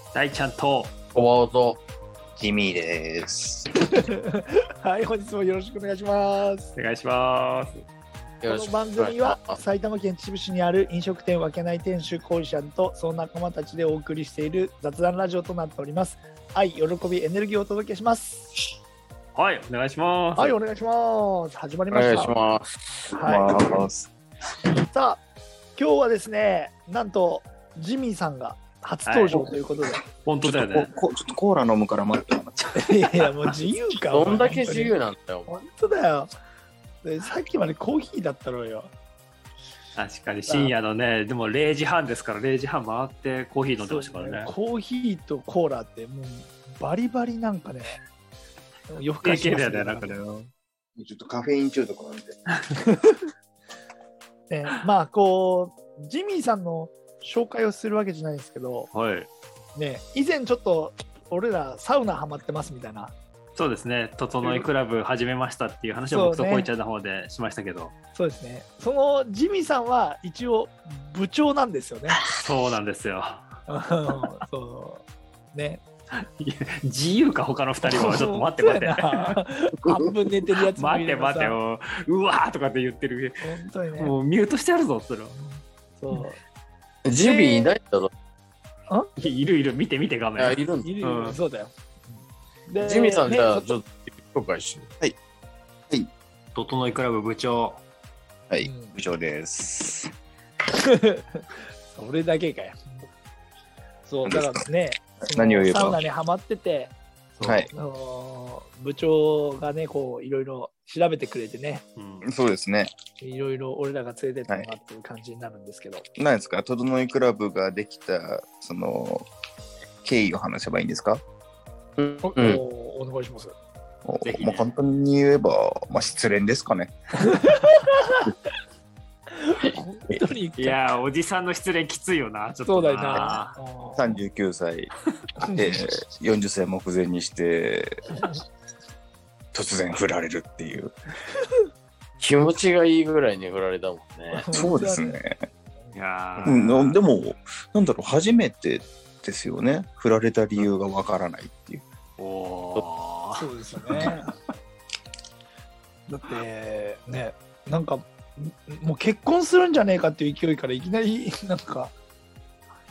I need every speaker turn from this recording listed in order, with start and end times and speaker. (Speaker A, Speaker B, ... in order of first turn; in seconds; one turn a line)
Speaker A: 0.1-0.9
Speaker B: 1.1-1.8
Speaker C: 2.4-3.7
Speaker D: 3.9-6.7
Speaker A: 6.8-7.8
Speaker B: 8.4-9.6
Speaker D: 8.5-18.6
Speaker A: 19.4-20.6
Speaker D: 20.4-22.4
Speaker B: 21.9-22.7
Speaker D: 23.1-23.6
Speaker C: 23.1-24.1
Speaker D: 24.9-25.2
Speaker D: 25.8-30.0
Speaker A: 29.1-29.5
Speaker C: 29.4-29.9
Speaker A: 30.2-30.9
Speaker C: 30.4-32.6
Speaker A: 32.6-33.3
Speaker D: 32.7-34.9
Speaker B: 34.1-35.6
Speaker D: 35.5-36.3
Speaker D: 37.0-38.9
Speaker A: 40.0-44.5
Speaker D: 40.5-40.7
Speaker D: 43.8-48.0
Speaker D: 48.9-50.2
Speaker A: 49.2-50.5
Speaker C: 51.0-52.4
Speaker D: 52.9-53.1
Speaker D: 54.5-58.9
Speaker A: 58.9-59.3
Speaker D: 59.8-63.1
Speaker A: 63.6-67.9
Speaker D: 64.4-64.7
Speaker D: 66.1-66.7
Speaker D: 68.2-72.2
Speaker A: 72.3-73.5
Speaker D: 73.7-75.8
Speaker A: 76.1-79.4
Speaker D: 77.8-81.6
Speaker A: 80.6-83.4
Speaker D: 83.4-84.2
Speaker A: 84.0-85.6
Speaker D: 86.0-86.4
Speaker B: 87.0-88.1
Speaker D: 87.2-87.7
Speaker A: 89.2-91.4
Speaker B: 90.4-90.9
Speaker D: 90.8-93.7
Speaker B: 92.8-94.9
Speaker A: 96.5-97.8
Speaker C: 98.5-100.1
Speaker D: 98.6-99.0
Speaker D: 100.8-101.4
Speaker D: 101.9-102.8
Speaker D: 104.1-107.0
Speaker C: 104.3-106.0
Speaker A: 107.4-107.7
Speaker C: 107.4-107.7
Speaker D: 107.7-111.8
Speaker A: 112.0-112.3
Speaker C: 112.2-112.9
Speaker D: 113.2-116.0
Speaker C: 114.5-114.7
Speaker C: 116.2-119.3
Speaker C: 120.0-121.2
Speaker B: 122.0-122.6
Speaker D: 122.2-123.5
Speaker C: 124.1-127.0
Speaker A: 124.2-124.7
Speaker D: 127.3-128.2
Speaker D: 129.4-130.8
Speaker A: 130.6-133.6
Speaker D: 132.7-134.2
Speaker C: 133.9-134.9
Speaker D: 135.4-135.8
Speaker C: 135.5-138.0
Speaker C: 139.5-140.9
Speaker B: 142.2-144.5
Speaker D: 144.4-145.2
Speaker C: 144.5-145.4
Speaker A: 145.9-147.0
Speaker C: 146.4-151.8
Speaker A: 152.2-154.1
Speaker D: 153.3-154.3
Speaker D: 156.1-161.9